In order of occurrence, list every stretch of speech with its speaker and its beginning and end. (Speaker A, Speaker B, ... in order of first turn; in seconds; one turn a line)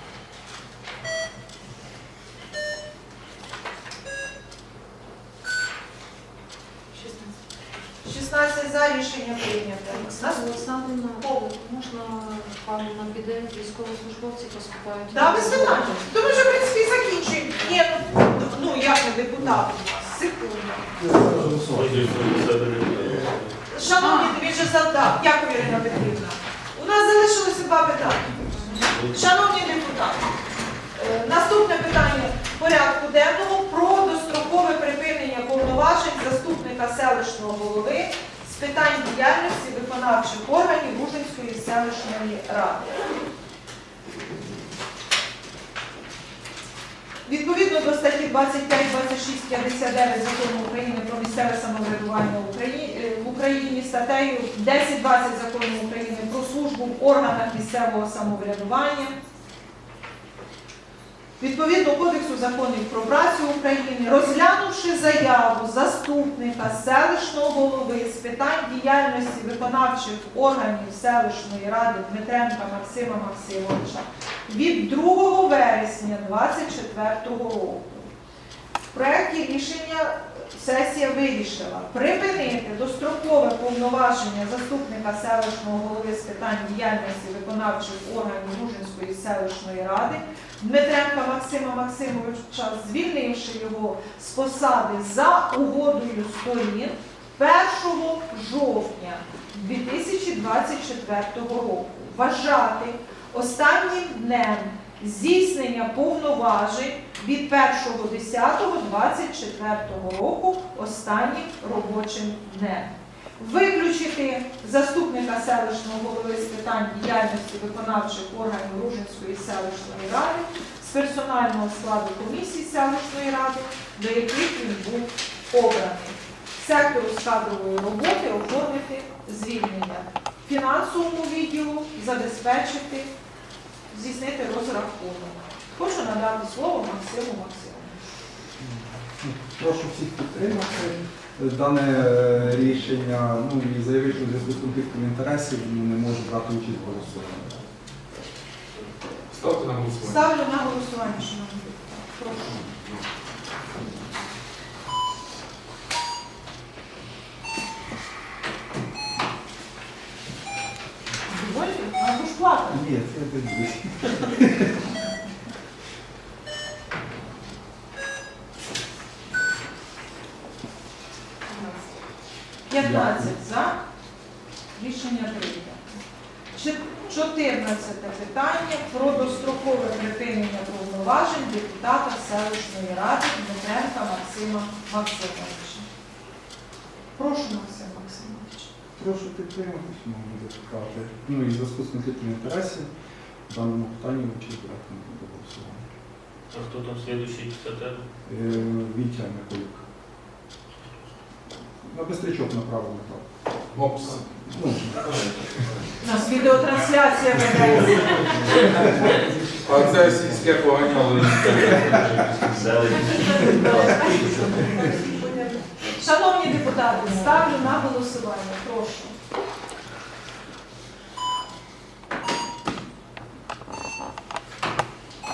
Speaker A: 7.0-7.3
Speaker B: 8.0-10.6
Speaker A: 9.9-16.3
Speaker B: 11.2-11.5
Speaker B: 15.1-21.0
Speaker C: 21.1-23.6
Speaker D: 21.3-21.6
Speaker B: 23.7-30.3
Speaker A: 24.0-24.4
Speaker C: 28.8-29.2
Speaker B: 30.9-43.0
Speaker B: 47.3-59.2
Speaker B: 61.4-78.1
Speaker B: 78.9-133.1
Speaker B: 133.9-138.0
Speaker D: 138.6-147.6
Speaker E: 149.3-150.2
Speaker B: 150.0-152.8
Speaker B: 161.3-162.8
Speaker D: 162.7-164.8
Speaker A: 171.5-171.8
Speaker B: 172.7-173.8
Speaker D: 172.8-173.3
Speaker B: 174.8-175.8
Speaker B: 176.5-185.9
Speaker B: 187.2-188.7
Speaker D: 188.9-192.9
Speaker D: 193.5-195.8
Speaker C: 196.5-198.1
Speaker D: 198.3-199.8
Speaker D: 201.8-203.2
Speaker E: 203.7-204.2
Speaker D: 204.3-205.1
Speaker B: 206.0-208.7
Speaker E: 208.1-209.1
Speaker D: 208.6-210.5
Speaker E: 209.6-212.0
Speaker C: 211.3-215.2
Speaker B: 212.9-215.2
Speaker B: 215.8-219.1